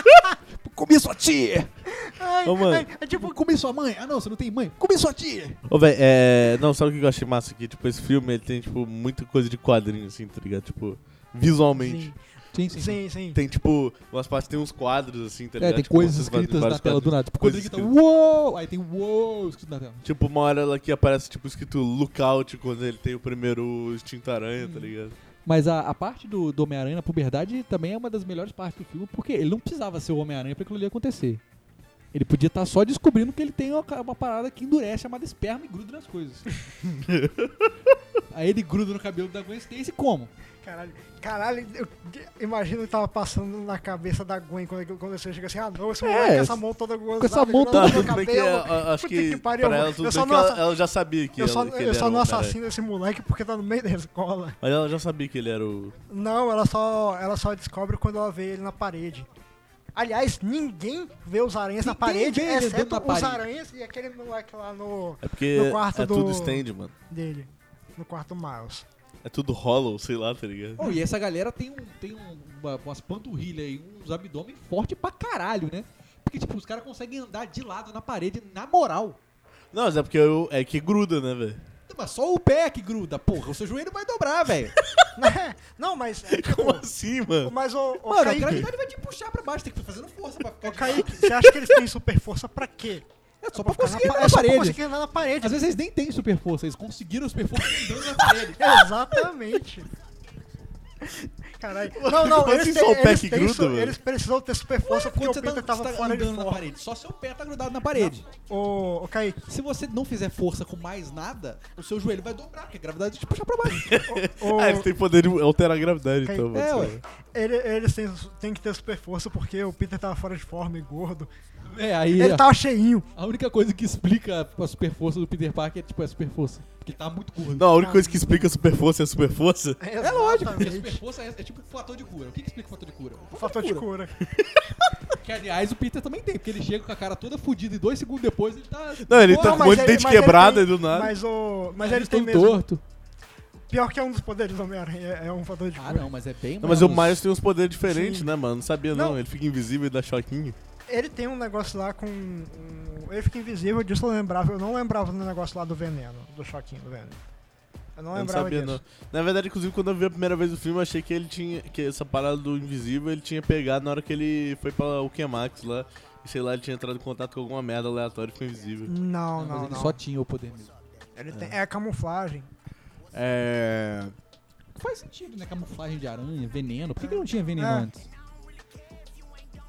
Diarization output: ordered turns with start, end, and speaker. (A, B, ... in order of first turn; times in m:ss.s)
0:00.2-0:01.7 A
0:01.9-0:03.4 B
0:02.4-0:02.9 C
0:03.1-0:05.6 A
0:05.7-0:12.1 C
0:11.7-0:12.2 B
0:12.5-0:13.0 A
0:12.7-0:13.4 B
0:13.3-0:17.9 C
0:15.6-0:20.0 A
0:20.0-0:25.1 C
0:24.6-0:24.9 A
0:25.4-0:31.4 A
0:32.1-0:36.6 A
0:36.9-0:37.7 C
0:38.3-0:40.3 A
0:40.6-0:50.7 B
0:46.0-0:46.6 A
0:47.2-0:48.1 A
0:47.7-0:52.6 C
0:51.4-0:54.6 B
0:54.6-0:55.9 C
0:56.1-0:59.3 B
0:59.9-1:08.8 B
1:01.8-1:03.4 A
1:05.2-1:06.9 C
1:09.2-1:10.8 C
1:10.8-1:19.2 A
1:19.7-1:21.6 C
1:21.9-1:24.8 A
1:25.2-1:26.8 B
1:26.3-1:27.5 C
1:27.4-1:28.7 B
1:28.0-1:31.3 A
1:30.6-1:35.6 B
1:33.4-1:34.8 A
1:35.4-1:38.8 A
1:38.5-1:39.9 B
1:41.6-1:46.6 B
1:41.9-1:44.0 C
1:44.9-1:48.2 A
1:47.9-1:49.4 B
1:49.5-1:54.0 A
1:53.7-1:57.0 C
1:54.1-1:54.9 B
1:56.2-2:01.3 B
1:56.5-1:57.0 A
2:01.7-2:02.4 A
2:02.1-2:03.1 B
2:03.2-2:07.8 A
2:07.5-2:09.8 C
2:07.7-2:08.5 B
2:09.8-2:11.0 B
2:10.0-2:13.9 A
2:13.3-2:14.1 B
2:15.1-2:20.0 A
2:19.0-2:21.1 C
2:19.3-2:22.6 B
2:21.8-2:22.8 A
2:23.7-2:26.1 B
2:25.8-2:27.2 A
2:26.6-2:30.6 C
2:27.8-2:28.3 B
2:28.9-2:29.2 B
2:30.9-2:37.2 B
2:38.0-2:38.8 B
2:38.1-2:48.9 C
2:48.9-2:50.0 B
2:49.4-2:50.7 A
2:51.2-2:52.5 B
2:53.1-2:54.1 C
2:54.8-2:58.1 A
2:57.0-2:57.9 B